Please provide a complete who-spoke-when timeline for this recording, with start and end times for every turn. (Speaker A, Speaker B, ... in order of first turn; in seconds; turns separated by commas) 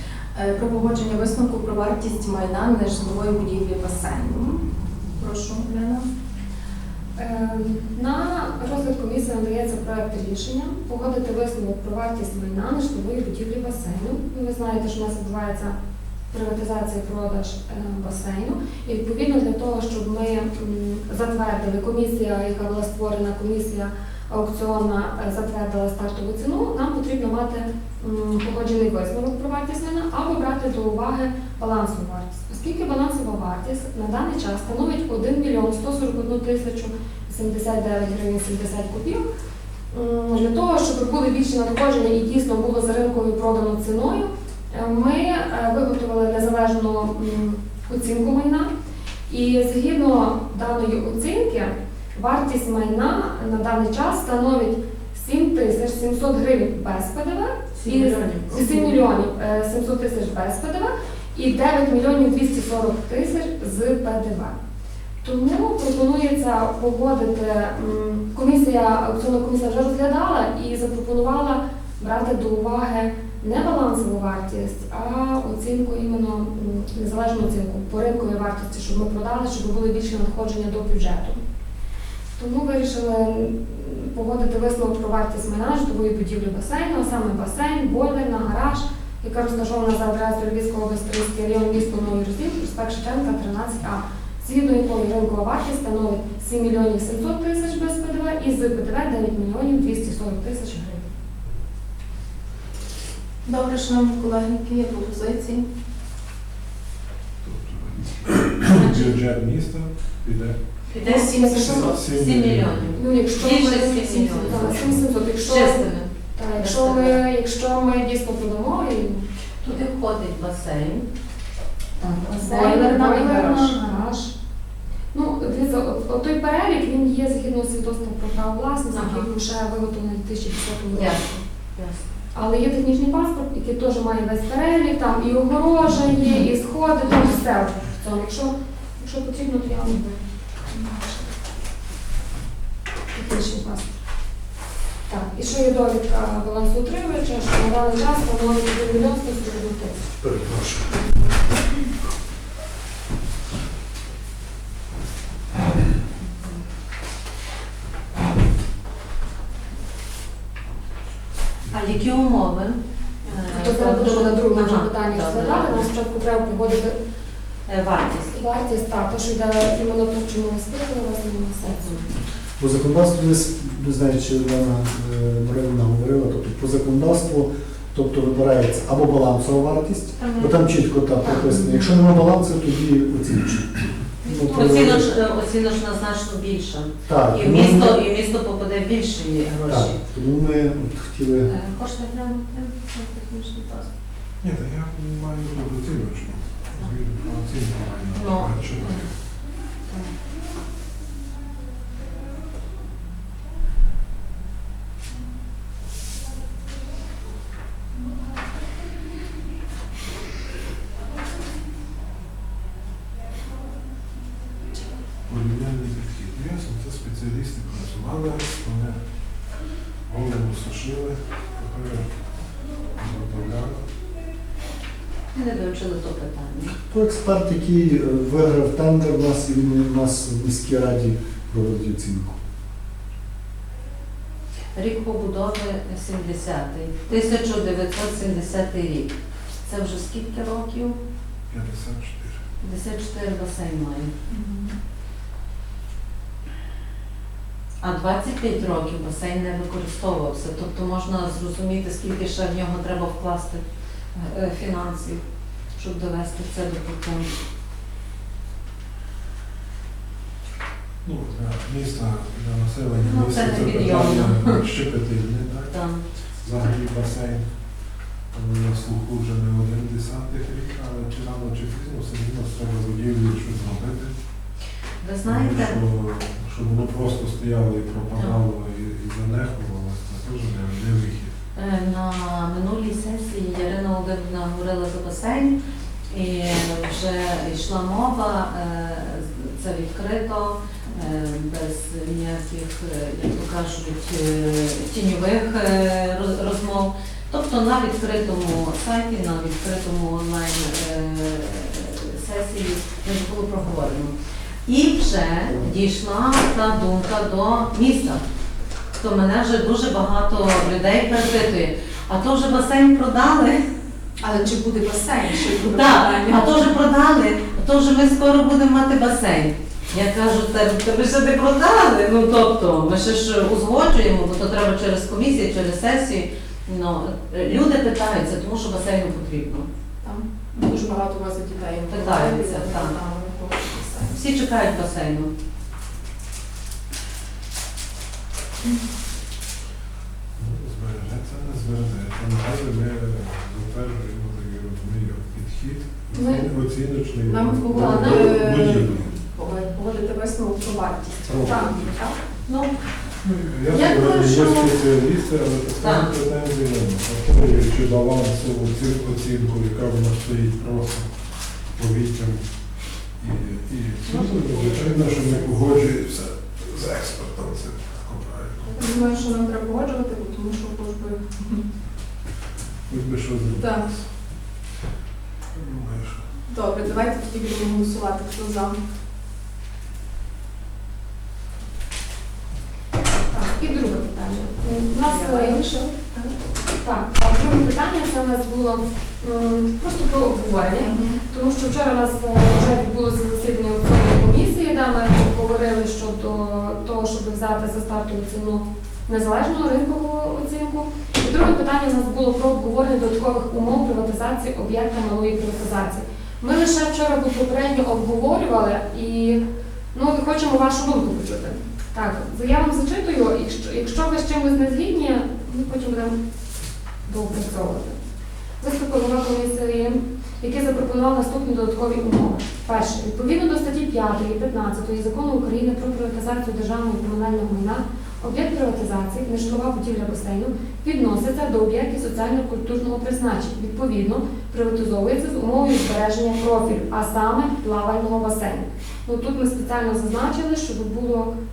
Speaker A: 0.3-4.6, Speaker A: 5.2-6.1, Speaker B: 7.2-15.8, Speaker B: 16.3-39.2, Speaker B: 39.9-48.7, Speaker B: 49.3-64.5, Speaker C: 57.7-58.8, Speaker B: 65.2-81.4, Speaker B: 82.4-101.0, Speaker A: 103.4-105.7, Speaker D: 107.4-110.6, Speaker C: 110.9-117.2, Speaker A: 111.0-112.0, Speaker B: 111.3-111.9, Speaker D: 111.7-112.9, Speaker B: 112.9-119.2, Speaker D: 114.5-115.0, Speaker C: 119.6-121.1, Speaker C: 122.0-122.5, Speaker A: 122.4-123.8, Speaker B: 122.4-124.3, Speaker B: 125.1-131.2, Speaker C: 129.0-129.2, Speaker C: 130.9-132.0, Speaker B: 132.3-140.0, Speaker B: 140.7-141.2, Speaker B: 143.1-143.9, Speaker B: 145.1-150.0, Speaker E: 150.2-151.0, Speaker C: 161.7-165.9, Speaker B: 163.5-167.0, Speaker C: 167.7-168.3, Speaker B: 168.3-172.1, Speaker E: 172.6-185.1, Speaker C: 180.2-180.7, Speaker C: 181.2-182.0, Speaker C: 184.2-190.0, Speaker E: 187.1-188.0, Speaker E: 189.7-191.5, Speaker C: 191.5-193.9, Speaker D: 194.4-199.1, Speaker C: 198.1-199.1, Speaker D: 215.2-219.0, Speaker D: 220.1-222.1, Speaker D: 223.0-223.8, Speaker C: 225.3-226.8, Speaker E: 226.9-232.4, Speaker C: 234.8-239.1, Speaker C: 239.7-241.0, Speaker D: 241.5-242.4, Speaker C: 242.6-244.1, Speaker A: 244.3-244.7, Speaker C: 247.8-253.6, Speaker C: 254.1-255.2, Speaker C: 255.8-257.3, Speaker D: 261.0-265.8, Speaker C: 263.0-264.6, Speaker C: 265.7-266.0, Speaker D: 266.4-267.5, Speaker D: 268.3-274.1, Speaker C: 275.0-275.8, Speaker D: 275.2-281.3, Speaker C: 281.6-285.6, Speaker C: 286.1-304.1, Speaker C: 304.6-308.2, Speaker C: 309.0-313.6, Speaker A: 314.2-316.7, Speaker C: 315.6-329.7, Speaker A: 330.0-334.2, Speaker C: 331.9-333.0, Speaker C: 334.0-335.3, Speaker D: 340.4-349.2, Speaker B: 346.1-346.4, Speaker A: 347.2-352.2, Speaker B: 347.8-348.2, Speaker D: 351.3-351.7, Speaker B: 351.5-351.7, Speaker C: 352.4-352.7, Speaker D: 353.2-361.1, Speaker C: 353.7-354.7, Speaker A: 354.2-354.6, Speaker C: 355.8-356.1, Speaker D: 361.7-362.4, Speaker D: 363.2-368.8, Speaker C: 364.1-365.6, Speaker A: 368.8-371.6, Speaker D: 372.9-374.1, Speaker A: 373.6-373.9, Speaker D: 375.5-376.3, Speaker A: 376.4-378.8, Speaker B: 383.3-385.8, Speaker A: 385.0-386.3, Speaker B: 386.8-409.4, Speaker A: 390.8-391.2, Speaker B: 409.9-416.1, Speaker B: 417.1-417.9, Speaker B: 418.6-441.3